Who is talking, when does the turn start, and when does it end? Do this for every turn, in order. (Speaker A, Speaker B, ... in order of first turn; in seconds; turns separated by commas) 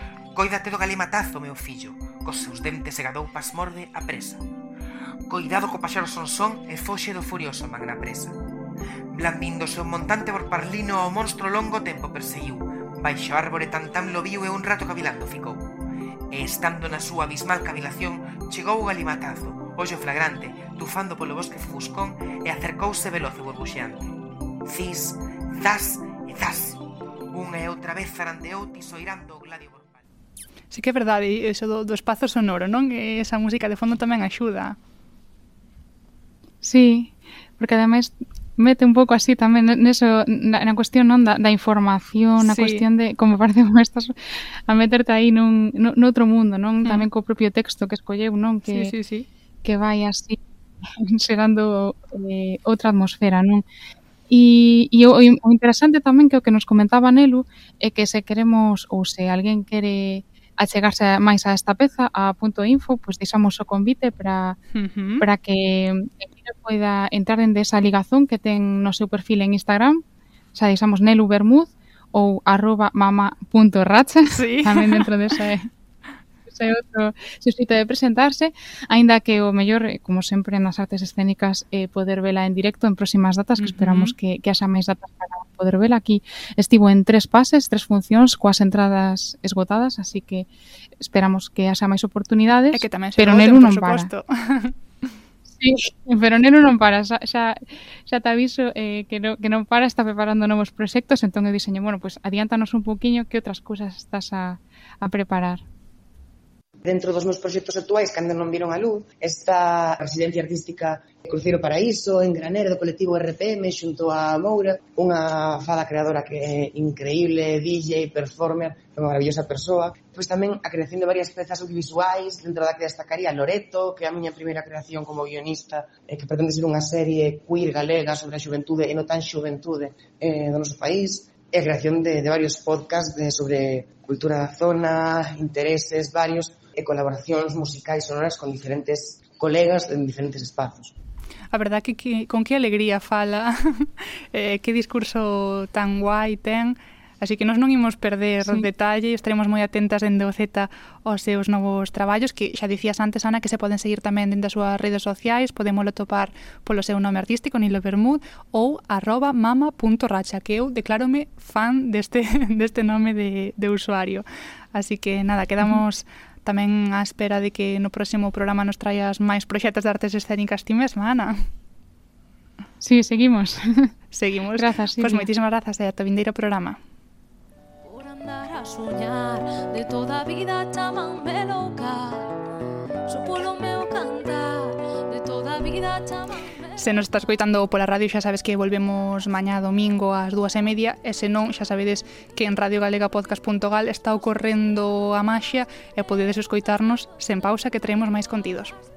Speaker A: 0.3-4.4, Speaker A: 5.3-8.4, Speaker A: 9.1-15.7, Speaker A: 16.3-30.0, Speaker B: 30.7-34.8, Speaker C: 36.6-49.0, Speaker B: 42.4-42.9, Speaker B: 48.7-49.3, Speaker C: 49.6-50.4, Speaker C: 51.0-53.6, Speaker C: 54.3-64.6, Speaker B: 64.7-65.2, Speaker C: 65.2-70.0, Speaker C: 70.5-75.7, Speaker B: 74.3-75.5, Speaker C: 76.5-94.1, Speaker B: 83.6-84.2, Speaker B: 92.7-95.1, Speaker C: 95.5-105.6, Speaker D: 106.8-140.9, Speaker B: 141.5-171.4, Speaker C: 172.8-173.9, Speaker B: 174.1-176.8, Speaker C: 174.6-175.3, Speaker E: 177.8-182.4, Speaker E: 183.1-186.7, Speaker B: 186.8-198.8